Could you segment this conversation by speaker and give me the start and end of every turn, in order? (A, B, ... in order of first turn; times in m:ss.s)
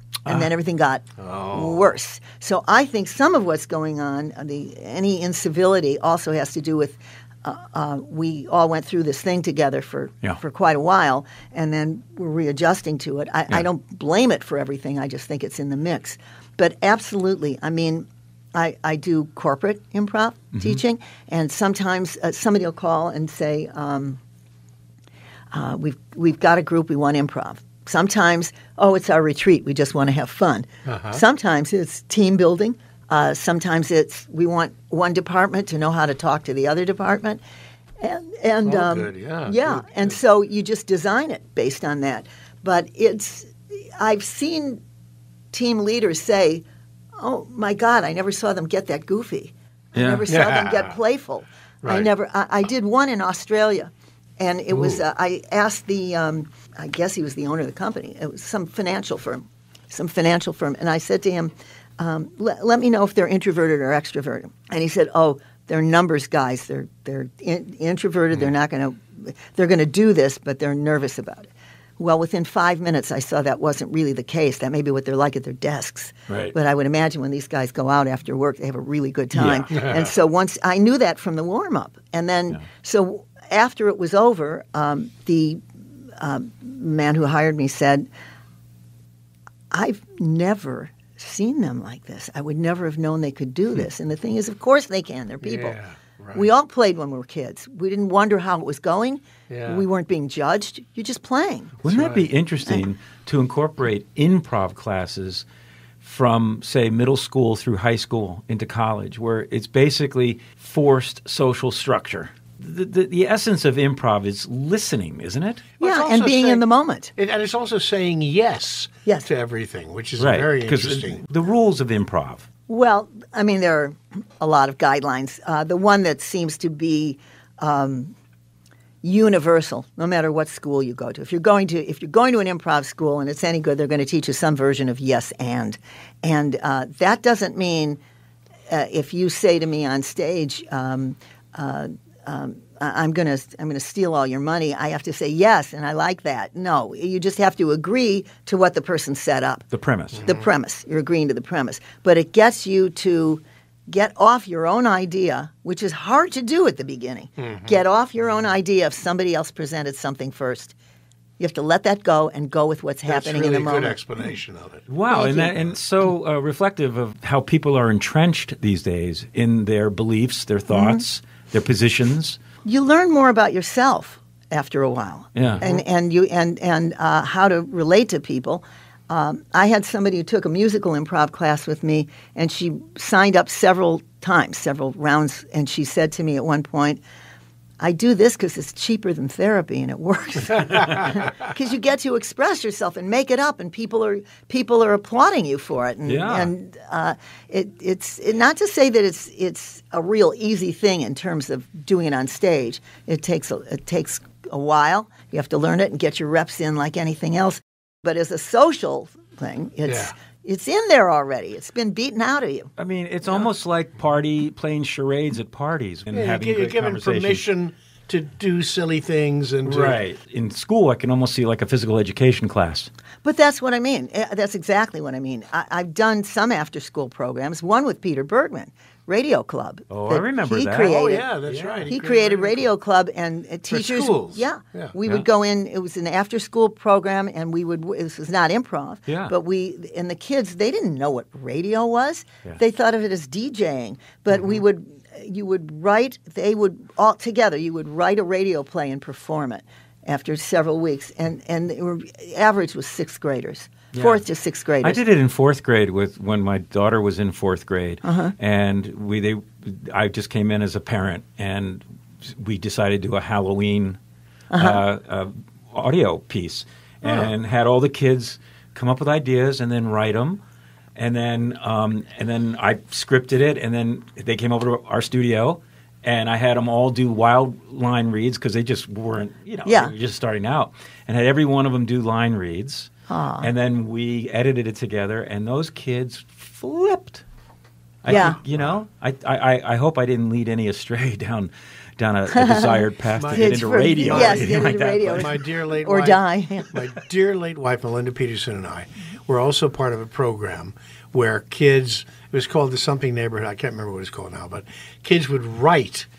0:00.3-0:24.2 A
0:01.2-0:02.0 B
0:20.5-0:20.8 C
0:25.5-0:37.4 A
0:30.9-0:31.2 B
0:38.0-0:44.8 A
0:38.6-0:40.2 B
0:45.5-0:46.6 A
0:47.2-1:25.6 A
0:50.0-0:50.3 C
0:50.3-0:51.0 B
0:51.8-0:52.1 B
0:54.7-0:55.0 B
1:16.3-1:16.5 C
1:19.3-1:19.7 C
1:19.7-1:20.1 B
1:26.2-1:28.1 A
1:29.7-1:35.8 A
1:35.4-1:36.5 B
1:36.3-1:41.7 A
1:39.5-1:39.8 B
1:41.8-1:45.5 C
1:41.9-1:42.2 B
1:46.0-1:55.7 C
1:55.8-1:56.6 B
1:55.8-1:57.1 A
1:57.2-2:01.2 B
2:00.2-2:02.5 C
2:02.7-2:08.2 A
2:09.0-2:18.0 A
2:18.7-2:29.7 A
2:29.7-2:30.2 C
2:30.2-2:40.8 A
2:37.4-2:37.8 B
2:41.4-2:44.0 A
2:43.1-2:44.8 B
2:44.9-2:52.4 C
2:45.1-2:45.6 A
2:50.7-2:51.0 A
2:52.6-3:07.0 A
2:55.4-2:55.6 C
2:55.5-2:55.8 B
3:07.8-3:32.7 A
3:16.1-3:16.5 C
3:29.9-3:30.1 B
3:32.8-3:37.4 C
3:36.1-3:40.0 B
3:39.6-3:42.9 C
3:43.2-3:51.3 A
3:49.9-3:51.9 C
3:50.9-3:52.6 B
3:51.9-4:15.0 A
3:53.7-3:54.9 B
3:59.1-3:59.3 C
4:13.9-4:14.2 C
4:14.8-4:24.0 C
4:18.0-4:18.3 A
4:24.5-4:24.8 A
4:24.6-4:30.4 C
4:31.0-4:47.2 C
4:39.6-4:39.9 A
4:43.1-4:43.5 A
4:48.0-4:55.4 C
4:48.1-4:48.4 A
4:48.1-4:48.7 B
4:52.3-4:56.8 A
4:53.2-5:06.1 B